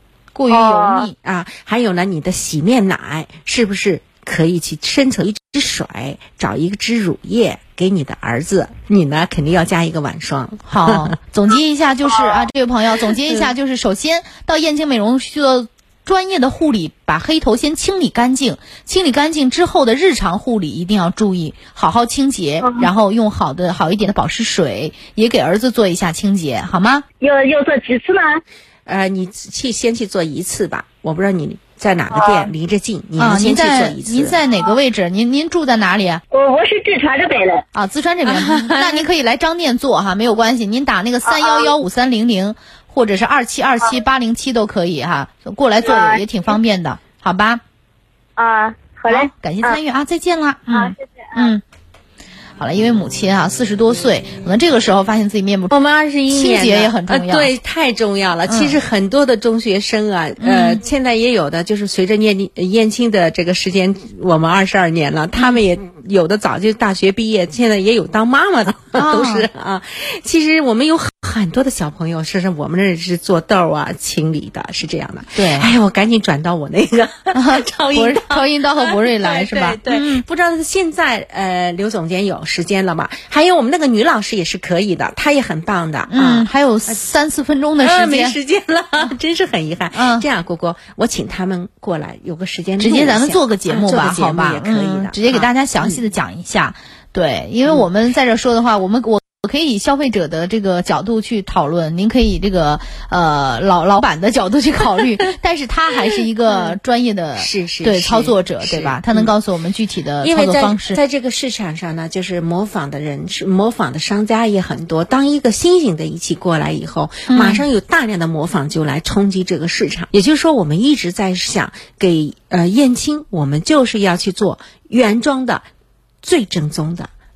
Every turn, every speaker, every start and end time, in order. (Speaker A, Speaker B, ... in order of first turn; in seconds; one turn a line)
Speaker A: 0.3-1.1
Speaker B: 0.5-1.1
Speaker C: 1.1-11.1
Speaker A: 10.7-27.0
Speaker B: 27.2-28.4
Speaker C: 28.9-34.4
Speaker B: 32.1-32.5
Speaker A: 33.2-36.2
Speaker B: 36.3-37.6
Speaker A: 37.7-47.6
Speaker C: 38.2-39.0
Speaker B: 41.3-41.7
Speaker B: 45.8-46.2
Speaker B: 48.4-49.8
Speaker A: 49.1-51.6
Speaker B: 50.7-51.3
Speaker A: 52.6-55.7
Speaker C: 55.7-87.0
Speaker A: 56.3-57.5
Speaker A: 58.5-58.8
Speaker A: 60.4-60.8
Speaker A: 68.9-69.5
Speaker A: 75.3-75.7
Speaker A: 77.3-80.2
Speaker A: 86.1-88.3
Speaker C: 87.8-96.0
Speaker A: 89.9-90.2
Speaker A: 92.8-111.0
Speaker C: 107.4-109.3
Speaker C: 110.2-125.7
Speaker A: 117.3-117.6
Speaker C: 126.2-127.1